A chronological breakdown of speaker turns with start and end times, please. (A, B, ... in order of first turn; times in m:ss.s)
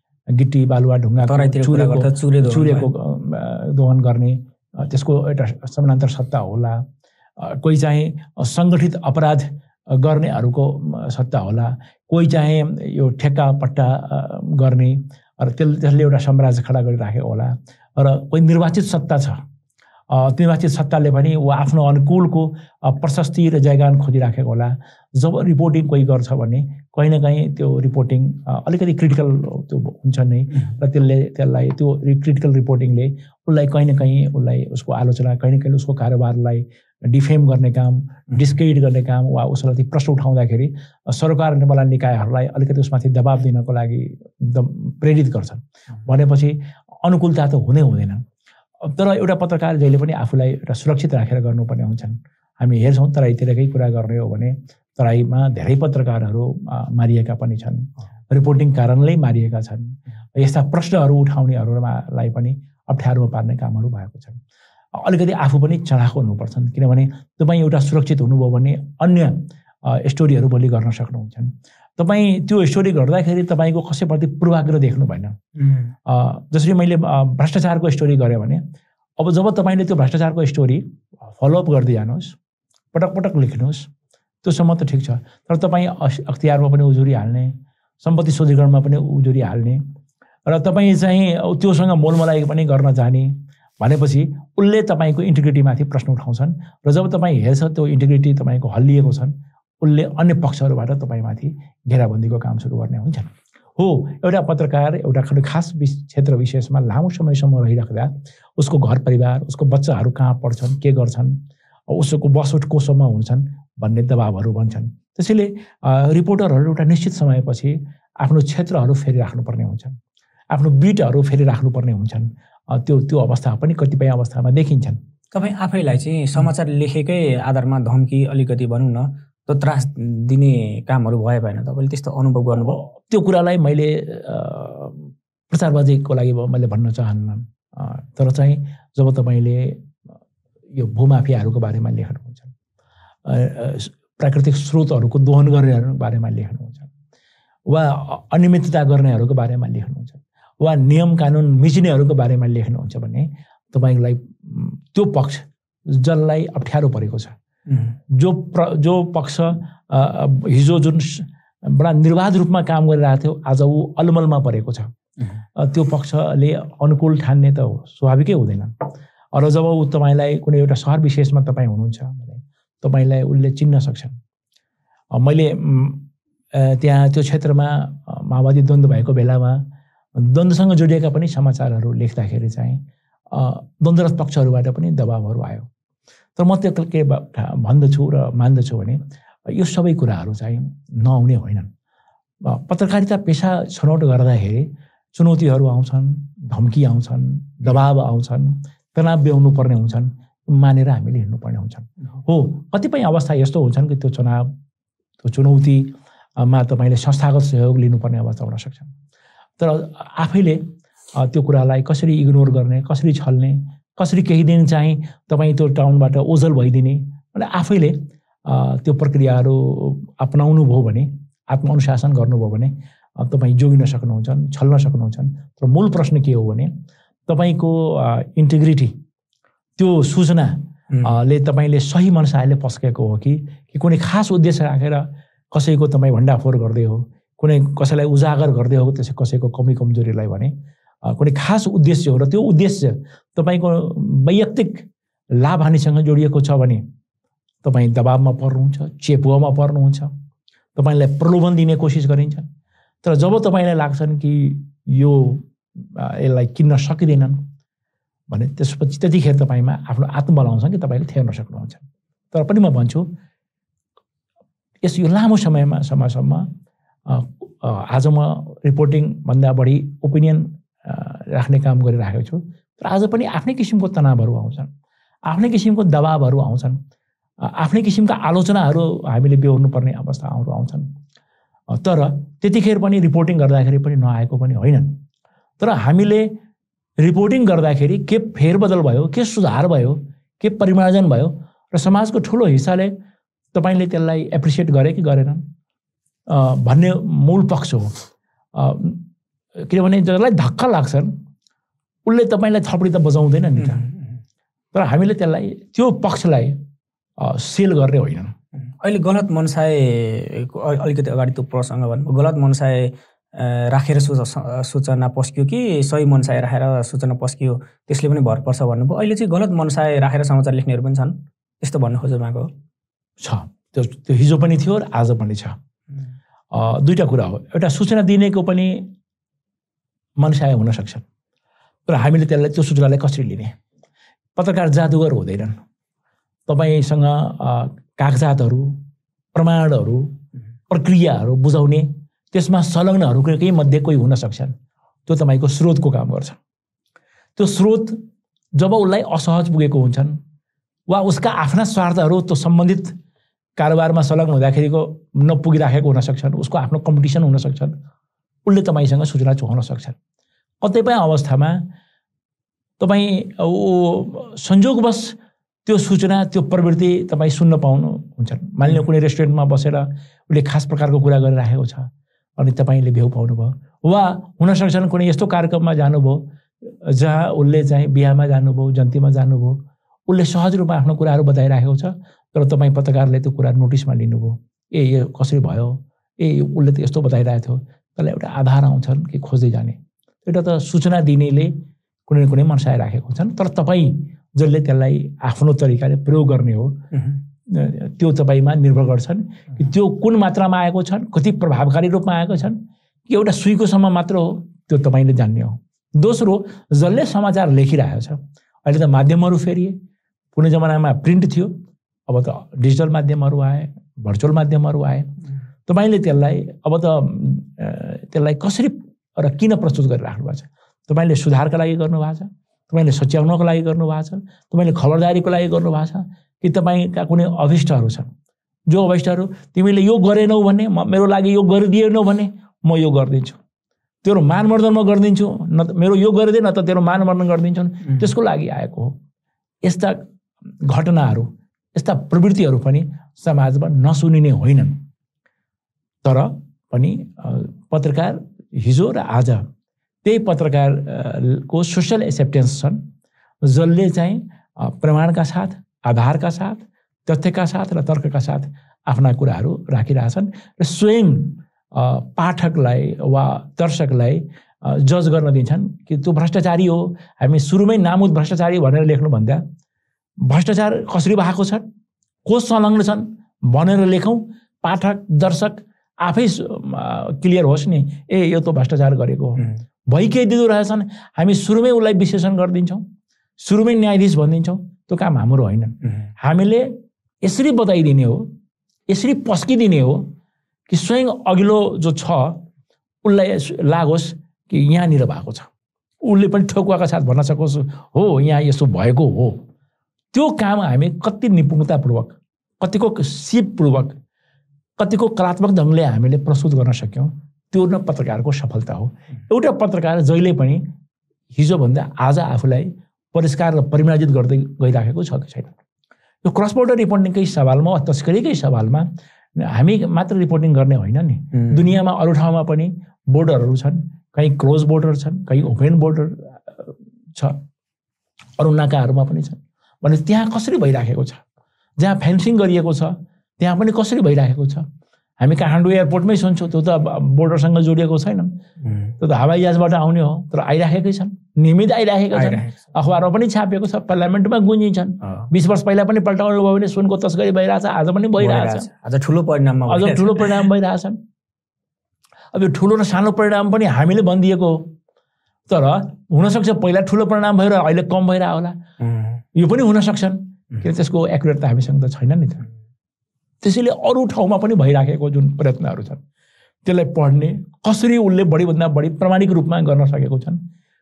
0:00.3-0:06.8 A
0:01.2-0:02.9 B
0:07.4-0:19.4 A
0:20.1-0:48.2 A
0:48.8-1:04.4 A
1:04.9-1:15.4 A
1:15.6-1:15.9 B
1:16.0-1:18.6 A
1:19.2-1:22.4 A
1:22.9-1:23.9 A
1:24.4-1:29.8 A
1:30.4-2:00.0 A
2:00.5-2:05.0 A
2:05.3-2:12.8 B
2:12.7-2:19.8 A
2:20.8-2:22.5 A
2:23.2-2:26.9 A
2:27.7-2:37.4 A
2:37.7-2:37.9 B
2:38.1-2:44.9 A
2:45.6-2:48.7 A
2:49.3-2:54.2 A
2:55.1-2:59.6 A
3:00.2-3:05.7 A
3:06.4-3:11.7 A
3:12.4-3:24.5 A
3:25.2-3:28.9 A
3:29.6-3:46.7 A
3:47.3-3:48.9 A
3:49.8-4:06.8 A
4:07.6-4:10.1 A
4:10.7-4:12.5 A
4:13.0-4:17.4 A
4:18.3-4:23.1 A
4:24.8-4:26.5 A
4:27.1-4:34.7 A
4:35.3-4:36.8 A
4:37.4-4:40.9 A
4:41.7-4:45.0 A
4:45.6-4:46.4 A
4:47.0-4:52.9 A
4:53.5-4:55.4 A
4:56.3-4:58.0 A
4:58.5-4:59.0 A
4:59.6-5:01.1 A
5:02.0-5:03.8 A
5:03.6-5:04.0 B
5:04.7-5:06.6 A
5:07.2-5:08.3 A
5:08.8-5:22.5 B
5:23.2-5:25.6 A
5:26.5-5:28.9 A
5:30.2-5:31.0 A
5:31.9-5:33.5 A
5:34.4-5:35.6 A
5:36.5-5:38.8 A
5:39.3-5:40.2 A
5:40.7-5:44.5 A
5:45.0-5:46.4 A
5:47.4-5:48.0 A
5:48.5-5:50.2 A
5:50.9-5:52.9 A
5:53.6-5:57.7 A
5:58.4-6:00.0 A
6:00.6-6:01.6 A
6:02.8-6:31.5 A
6:32.1-6:36.8 A
6:37.5-6:49.8 A
6:50.3-6:51.5 A
6:52.1-6:55.1 A
6:55.6-7:08.1 A
7:08.7-7:13.4 A
7:14.0-7:19.0 A
7:19.6-7:20.0 A
7:20.6-7:24.8 A
7:26.0-7:29.4 A
7:30.0-7:32.8 A
7:33.4-7:49.4 A
7:50.2-7:51.6 A
7:52.2-8:02.8 A
8:03.4-8:08.3 A
8:08.9-8:10.1 A
8:10.7-8:12.4 A
8:13.0-8:15.5 A
8:16.0-8:19.4 A
8:20.1-8:24.0 A
8:24.8-8:30.6 A
8:31.3-8:35.6 A
8:36.2-8:47.4 A
8:41.3-8:41.7 B
8:48.4-8:51.2 A
8:51.8-8:54.6 A
8:55.2-8:58.3 A
8:58.6-8:58.9 B
8:59.0-9:08.7 A
9:02.1-9:02.5 B
9:08.2-9:10.5 B
9:09.7-9:11.0 A
9:12.3-9:14.7 A
9:15.5-9:18.6 A
9:18.8-9:19.2 B
9:19.3-9:22.5 A
9:23.4-9:26.0 A
9:26.6-9:30.4 A